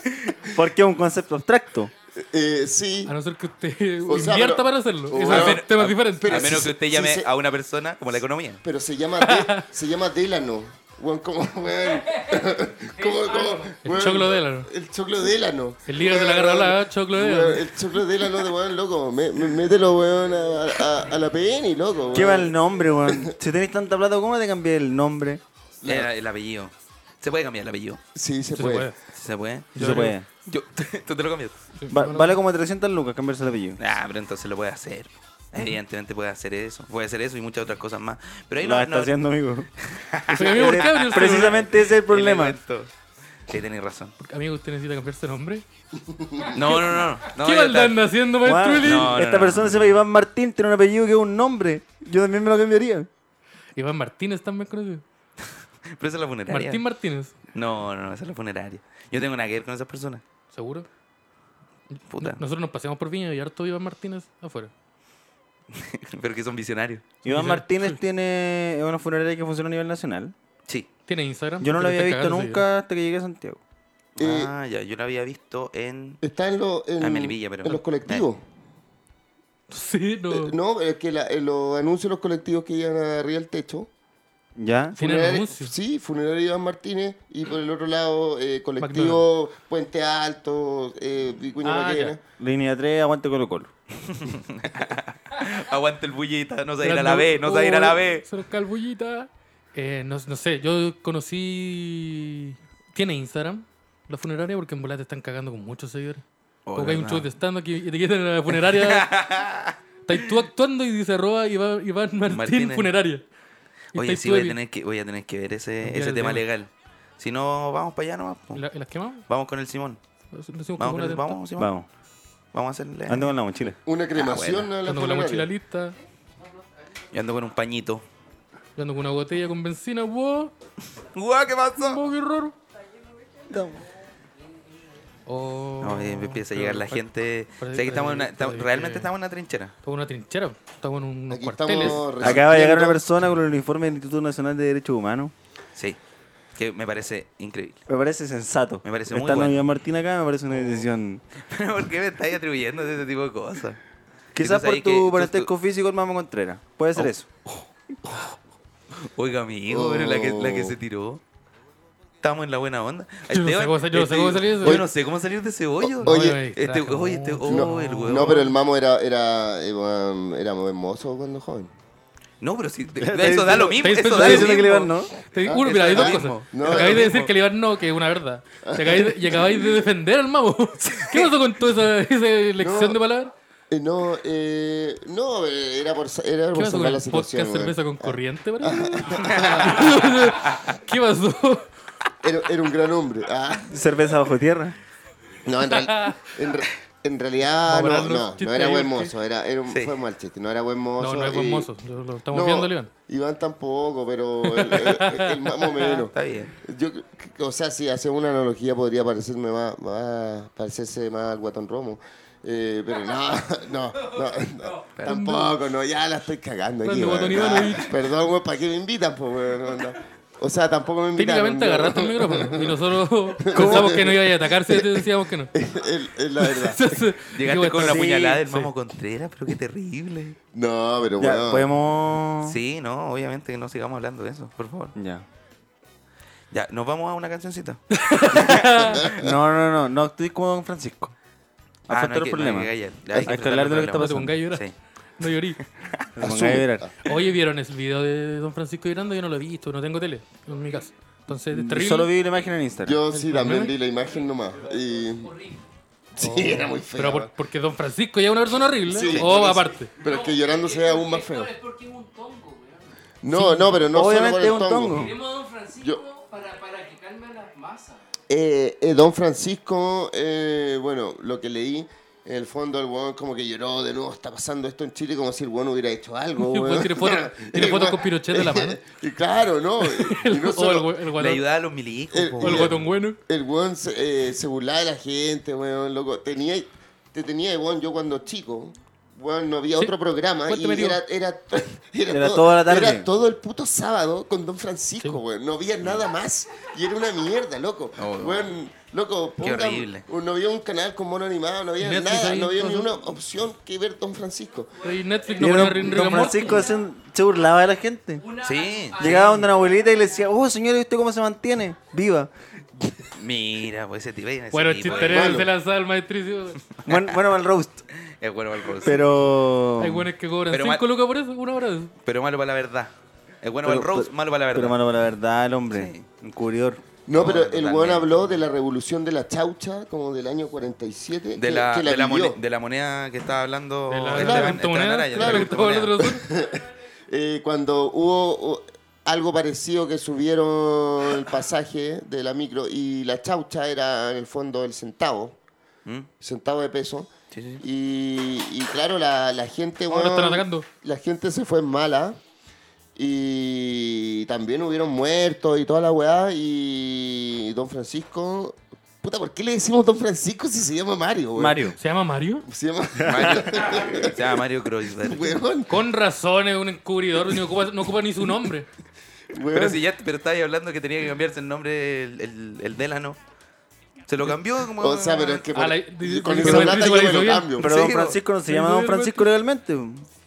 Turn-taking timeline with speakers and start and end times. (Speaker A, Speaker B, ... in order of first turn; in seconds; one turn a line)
Speaker A: 0.5-1.9
Speaker B: 2.2-3.1
Speaker C: 3.1-6.5
Speaker B: 4.1-7.3
Speaker D: 5.1-8.6
Speaker B: 8.6-23.3
Speaker C: 9.2-9.6
Speaker E: 13.0-13.6
Speaker C: 13.8-14.7
Speaker C: 15.9-17.7
Speaker A: 22.1-25.4
Speaker B: 25.8-26.1
Speaker D: 25.9-28.0
Speaker B: 28.1-28.9
Speaker C: 28.6-29.0
Speaker D: 29.1-31.6
Speaker C: 29.7-30.1
Speaker A: 29.8-30.3
Speaker C: 31.8-32.4
Speaker A: 31.9-33.8
Speaker D: 33.8-39.2
Speaker A: 38.6-39.7
Speaker D: 39.8-42.9
Speaker A: 40.3-42.6
Speaker C: 40.4-41.6
Speaker D: 43.5-44.1
Speaker C: 44.2-45.6
Speaker B: 46.1-46.5
Speaker D: 46.5-48.1
Speaker C: 46.6-49.1
Speaker A: 48.4-53.1
Speaker D: 48.8-50.0
Speaker C: 53.8-55.0
Speaker D: 55.9-56.8
Speaker C: 56.5-57.3
Speaker D: 57.5-60.2
Speaker C: 60.5-60.9
Speaker C: 62.0-64.7
Speaker D: 62.1-62.4
Speaker D: 65.7-67.1
Speaker C: 67.2-68.0
Speaker A: 67.2-70.3
Speaker C: 71.1-72.7
Speaker A: 71.6-73.6
Speaker D: 74.2-76.2
Speaker B: 74.2-74.5
Speaker B: 76.2-78.4
Speaker D: 77.0-78.3
Speaker C: 79.7-80.5
Speaker B: 80.3-83.9
Speaker A: 84.6-85.0
Speaker C: 85.0-85.7
Speaker B: 85.0-92.2
Speaker C: 88.8-89.2
Speaker C: 91.6-92.2
Speaker A: 92.4-93.7
Speaker D: 94.0-98.3
Speaker C: 96.8-106.2
Speaker D: 106.7-107.3
Speaker C: 106.8-109.1
Speaker D: 108.7-109.8
Speaker C: 110.1-113.2
Speaker D: 112.3-112.9
Speaker D: 113.9-118.7
Speaker C: 113.9-114.6
Speaker C: 115.8-116.4
Speaker C: 118.5-119.3
Speaker D: 119.3-120.0
Speaker C: 120.3-121.4
Speaker D: 120.8-121.7
Speaker A: 121.6-121.9
Speaker D: 122.5-123.3
Speaker A: 123.1-123.8
Speaker B: 123.9-125.5
Speaker D: 124.1-124.7
Speaker C: 124.8-126.0
Speaker D: 127.1-128.0
Speaker C: 128.8-130.5
Speaker D: 131.1-132.0
Speaker C: 131.8-132.6
Speaker A: 133.5-133.9
Speaker C: 135.3-137.1
Speaker D: 135.8-139.7
Speaker C: 137.6-139.1
Speaker C: 139.8-142.1
Speaker B: 141.3-143.0
Speaker A: 142.2-145.3
Speaker D: 146.6-147.8
Speaker A: 147.9-151.2
Speaker D: 148.8-149.6
Speaker D: 150.5-150.8
Speaker D: 151.4-153.8
Speaker A: 154.3-157.3
Speaker D: 154.4-155.5
Speaker D: 157.0-158.3
Speaker D: 159.0-161.2
Speaker B: 159.7-160.8
Speaker D: 162.2-168.5
Speaker C: 163.3-164.8
Speaker C: 166.0-168.5
Speaker B: 166.0-166.4
Speaker B: 167.5-171.7
Speaker D: 172.4-174.9
Speaker A: 173.0-175.1
Speaker C: 173.8-183.3
Speaker B: 175.4-177.2
Speaker D: 175.6-177.3
Speaker B: 178.7-179.7
Speaker D: 180.9-181.3
Speaker B: 182.6-183.0
Speaker B: 183.7-190.1
Speaker C: 186.6-191.7
Speaker D: 190.4-190.7
Speaker B: 192.2-193.7
Speaker A: 193.7-194.8
Speaker B: 195.4-201.7
Speaker C: 195.9-196.2
Speaker C: 197.7-199.1
Speaker D: 199.7-200.0
Speaker C: 201.0-202.9
Speaker B: 202.3-227.1
Speaker D: 204.6-206.5
Speaker C: 215.1-215.5
Speaker C: 216.8-217.9
Speaker C: 221.2-225.5
Speaker A: 223.5-224.0
Speaker C: 226.4-228.7
Speaker D: 227.3-230.4
Speaker A: 227.8-228.4
Speaker B: 230.5-231.7
Speaker A: 231.2-232.6
Speaker D: 232.4-234.9
Speaker A: 234.9-235.2
Speaker D: 236.5-238.8
Speaker C: 237.9-239.0
Speaker B: 239.0-239.4
Speaker A: 239.1-241.1
Speaker A: 241.9-244.4
Speaker D: 241.9-244.8
Speaker C: 243.9-245.6
Speaker A: 246.2-246.9
Speaker B: 246.3-246.9
Speaker C: 247.0-252.1
Speaker A: 251.5-253.0
Speaker B: 252.8-255.3
Speaker C: 253.1-253.8
Speaker E: 255.2-255.6
Speaker B: 256.2-257.3
Speaker C: 256.2-259.9
Speaker B: 258.9-261.5
Speaker E: 259.9-262.9
Speaker B: 263.2-265.2
Speaker C: 263.3-263.8
Speaker A: 263.9-265.1
Speaker E: 264.9-268.0
Speaker B: 268.3-280.9
Speaker C: 276.4-278.8
Speaker C: 279.8-281.4
Speaker D: 281.2-282.8
Speaker B: 282.1-304.7
Speaker C: 282.4-283.2
Speaker C: 290.5-291.0
Speaker A: 292.1-293.1
Speaker D: 298.0-298.5
Speaker D: 299.4-300.1
Speaker C: 301.8-303.1
Speaker C: 304.8-306.6
Speaker E: 305.3-306.9
Speaker A: 305.4-308.3
Speaker E: 308.2-309.6
Speaker D: 308.4-309.2
Speaker A: 309.0-313.1
Speaker D: 313.2-315.5
Speaker C: 314.5-316.6
Speaker B: 315.1-315.5
Speaker D: 316.7-317.2
Speaker A: 316.9-317.9
Speaker D: 317.9-319.4
Speaker A: 318.7-320.1
Speaker C: 319.8-321.9
Speaker D: 320.5-320.9
Speaker D: 322.0-324.8
Speaker A: 323.6-326.8
Speaker D: 325.7-326.1
Speaker B: 327.1-332.4
Speaker D: 327.1-328.4
Speaker D: 331.4-336.1
Speaker C: 333.9-336.2
Speaker B: 334.2-345.4
Speaker B: 346.2-347.1
Speaker D: 347.3-347.6
Speaker B: 347.6-352.2
Speaker C: 349.9-350.7
Speaker B: 353.0-361.6
Speaker A: 361.4-361.8
Speaker C: 361.8-362.5
Speaker B: 362.5-364.2
Speaker A: 363.0-363.5
Speaker D: 363.1-365.4
Speaker B: 365.0-365.7
Speaker C: 365.7-368.7
Speaker B: 369.3-369.8
Speaker D: 369.5-373.2
Speaker D: 374.1-375.5
Speaker B: 374.8-377.7
Speaker C: 375.6-377.6
Speaker A: 377.6-380.1
Speaker D: 377.6-378.2
Speaker C: 378.5-379.3